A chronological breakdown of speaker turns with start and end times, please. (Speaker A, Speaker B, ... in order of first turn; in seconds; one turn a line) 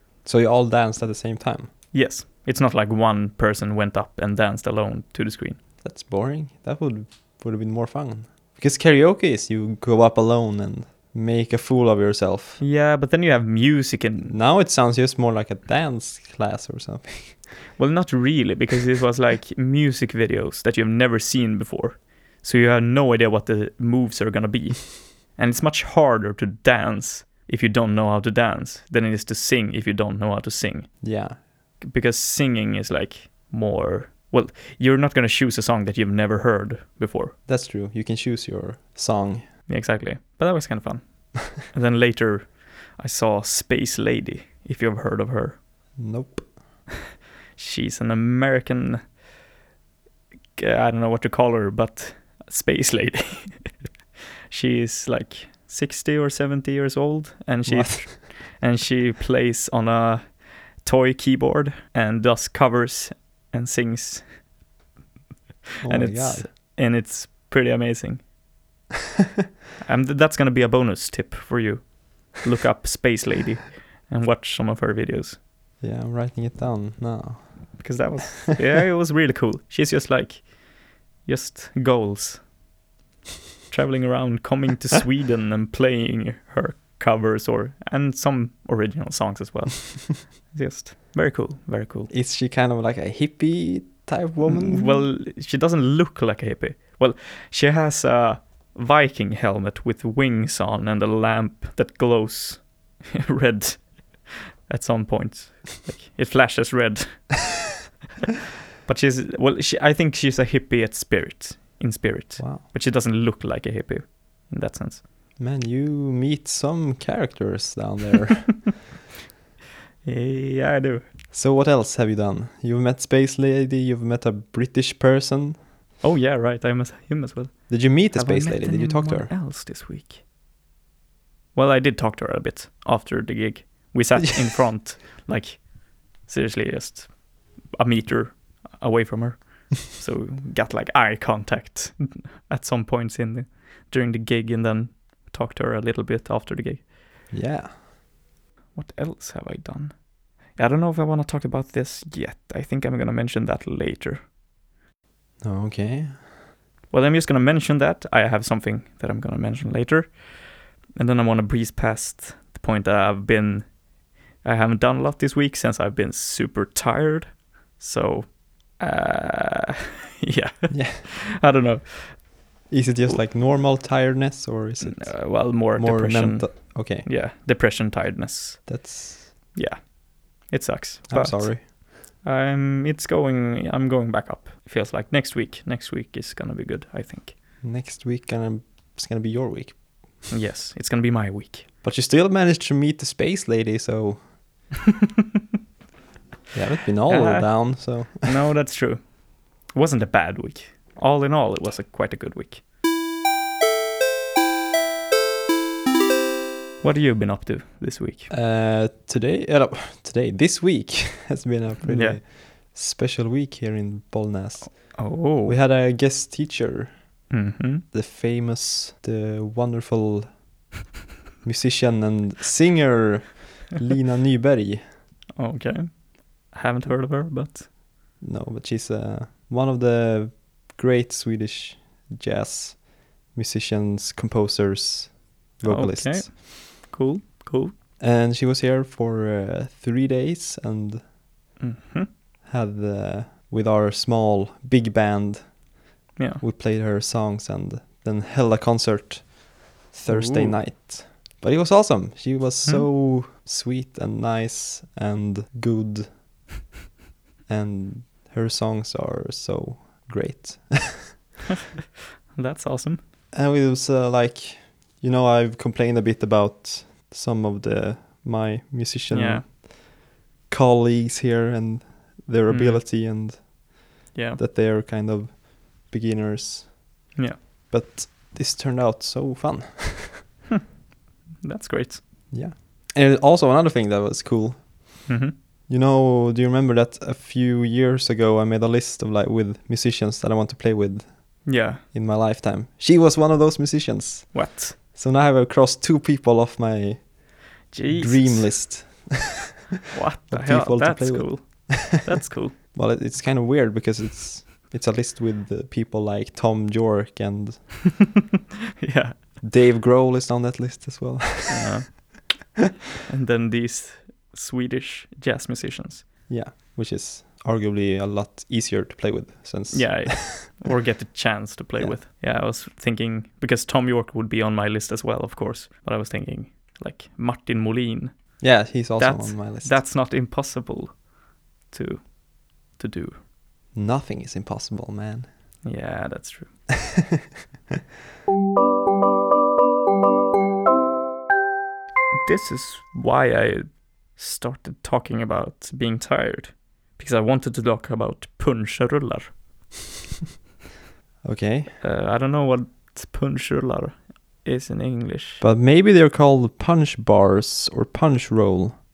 Speaker A: 0.2-1.7
Speaker B: 1.9-5.6
Speaker A: 5.8-12.6
Speaker B: 12.6-14.3
Speaker A: 14.3-17.6
Speaker B: 17.8-31.0
Speaker A: 31.0-31.4
Speaker B: 31.8-37.4
Speaker A: 37.5-39.4
Speaker B: 39.7-45.6
Speaker A: 46.0-46.6
Speaker B: 47.5-49.0
Speaker B: 50.5-53.8
Speaker B: 54.5-64.3
Speaker A: 57.6-58.0
Speaker A: 65.8-66.5
Speaker B: 65.9-68.2
Speaker B: 69.8-75.4
Speaker A: 75.8-77.8
Speaker B: 77.8-80.5
Speaker B: 81.2-82.5
Speaker B: 83.7-92.1
Speaker A: 92.1-95.0
Speaker B: 94.4-107.5
Speaker B: 108.8-115.0
Speaker A: 112.4-112.6
Speaker A: 115.4-118.6
Speaker B: 120.0-121.0
Speaker A: 121.3-125.6
Speaker B: 126.0-130.2
Speaker A: 127.7-129.3
Speaker B: 131.5-146.9
Speaker A: 147.3-147.7
Speaker B: 148.7-154.2
Speaker A: 155.4-156.3
Speaker B: 156.9-160.3
Speaker B: 160.9-163.8
Speaker B: 164.4-172.3
Speaker A: 170.7-171.0
Speaker A: 172.7-177.1
Speaker B: 174.8-178.9
Speaker A: 178.7-179.3
Speaker B: 179.5-187.3
Speaker A: 181.1-181.6
Speaker A: 187.6-190.2
Speaker B: 190.3-191.7
Speaker A: 191.8-194.3
Speaker A: 196.5-198.3
Speaker B: 197.1-202.6
Speaker B: 206.8-208.3
Speaker A: 208.3-217.3
Speaker B: 211.8-212.2
Speaker B: 214.6-215.6
Speaker B: 217.3-217.8
Speaker A: 217.8-220.4
Speaker A: 221.4-224.9
Speaker B: 225.3-227.7
Speaker A: 228.2-236.3
Speaker B: 235.6-237.7
Speaker A: 238.0-241.1
Speaker B: 241.6-242.1
Speaker A: 242.4-245.6
Speaker B: 246.2-246.4
Speaker A: 246.4-256.2
Speaker B: 250.1-250.6
Speaker A: 257.5-261.1
Speaker B: 262.3-263.0
Speaker A: 263.3-269.7
Speaker B: 269.1-269.5
Speaker A: 270.5-273.5
Speaker B: 272.5-272.9
Speaker A: 274.1-280.2
Speaker B: 274.1-274.4
Speaker B: 277.1-277.4
Speaker B: 281.4-282.0
Speaker A: 282.3-285.1
Speaker B: 285.1-285.3
Speaker A: 285.7-299.3
Speaker B: 291.4-291.8
Speaker B: 294.3-294.8
Speaker B: 297.7-298.7
Speaker B: 299.9-302.6
Speaker A: 300.3-301.9
Speaker A: 302.6-307.9
Speaker B: 308.8-309.2
Speaker A: 309.4-312.1
Speaker B: 311.5-312.0
Speaker B: 313.1-316.1
Speaker A: 316.3-320.6
Speaker B: 319.7-331.0
Speaker A: 328.4-329.8
Speaker B: 331.7-333.2
Speaker A: 333.7-335.3
Speaker B: 335.6-336.6
Speaker B: 342.1-349.4
Speaker A: 351.2-351.8
Speaker B: 351.8-355.4
Speaker A: 355.4-358.8